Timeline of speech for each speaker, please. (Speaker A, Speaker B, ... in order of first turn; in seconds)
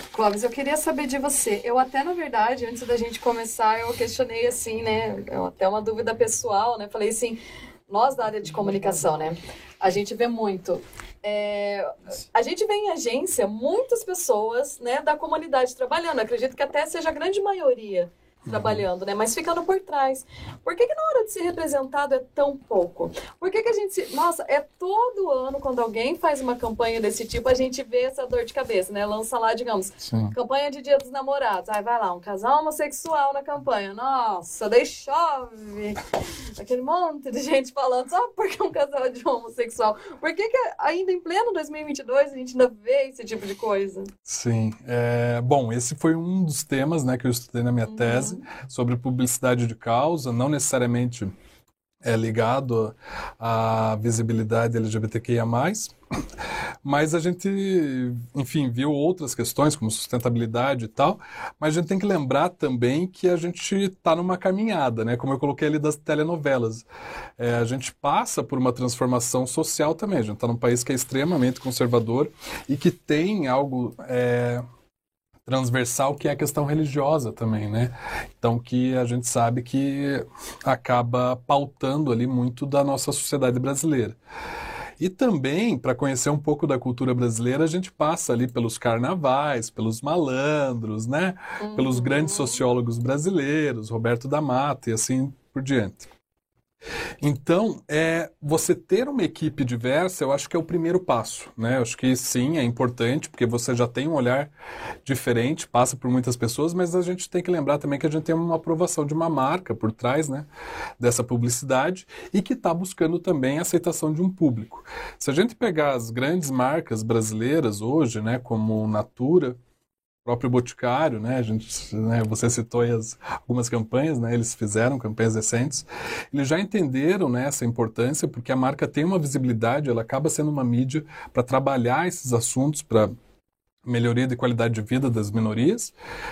Speaker A: 0.1-44.1, 47.9-48.4, 91.6-92.6
Speaker B: 18.5-18.8, 30.0-30.3, 44.2-51.3, 52.0-55.9, 56.8-66.8, 67.4-74.6, 75.5-84.2, 85.0-96.1, 97.2-104.5, 105.0-110.5, 111.0-119.6, 120.2-133.1, 133.8-135.9